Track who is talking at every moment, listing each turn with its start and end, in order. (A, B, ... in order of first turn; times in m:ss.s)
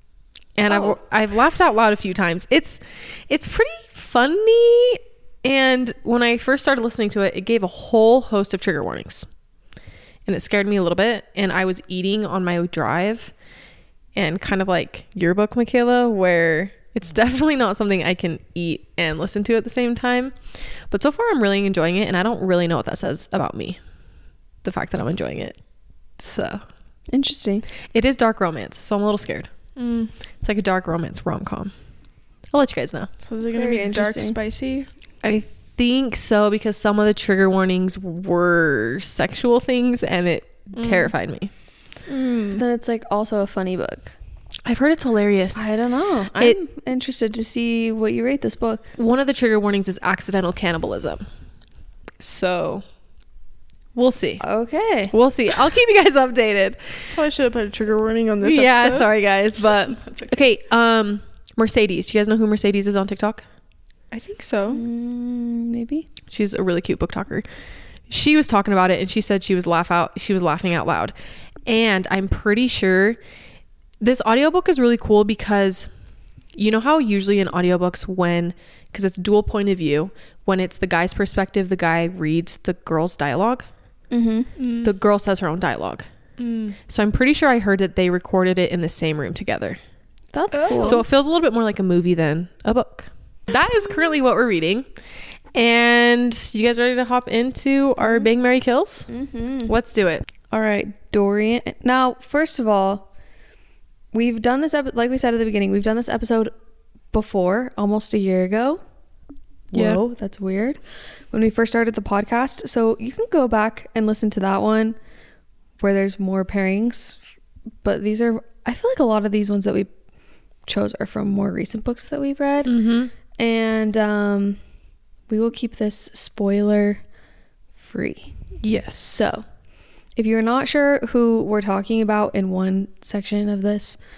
0:00.6-0:09.3 A
0:00.7-0:00.9 B
0:10.2-0:13.3 A
0:14.1-0:20.3 A
0:20.9-0:23.8 A
0:24.6-0:25.6 A
0:26.2-0:26.6 A
0:27.1-0:27.6 B
0:27.9-0:29.5 A
0:29.8-0:30.1 C
0:30.4-0:31.7 A
0:32.5-0:33.1 A
0:33.2-0:34.9 C
0:33.5-0:34.4 B
0:35.2-0:41.5 A
0:40.7-0:41.1 C
0:42.0-0:42.6 C
0:42.5-0:44.1 B
0:44.6-0:45.6 A
0:45.5-0:48.9 B
0:49.0-0:51.2 A
0:52.2-0:52.8 A
0:53.9-0:54.4 A
0:54.4-0:55.1 B
0:55.1-0:57.1 A
0:57.1-0:59.1 C
0:58.4-1:03.4 A
0:59.8-1:00.4 C
1:04.1-1:04.8 C
1:04.7-1:06.1 B
1:06.3-1:07.4 A
1:08.1-1:11.1 A
1:11.6-1:13.2 A
1:14.0-1:15.9 A
1:16.5-1:23.6 A
1:24.1-1:24.5 B
1:24.6-1:24.9 C
1:24.8-1:26.0 A
1:26.4-1:26.8 C
1:26.9-1:29.8 A
1:30.3-1:31.0 B
1:30.5-1:31.0 C
1:30.8-1:34.9 A
1:35.5-1:39.1 A
1:38.0-1:38.3 B
1:39.1-1:39.7 B
1:39.6-1:40.2 A
1:40.5-1:43.1 B
1:44.1-1:46.5 B
1:47.1-1:48.8 B
1:49.7-1:50.8 B
1:49.7-1:50.0 A
1:51.3-1:55.0 B
1:55.8-1:57.2 B
1:57.8-1:59.9 B
2:00.6-2:02.8 B
2:02.6-2:03.1 A
2:03.3-2:04.6 B
2:05.3-2:07.0 B
2:07.8-2:08.4 B
2:08.6-2:09.3 A
2:09.1-2:09.4 B
2:10.2-2:14.0 B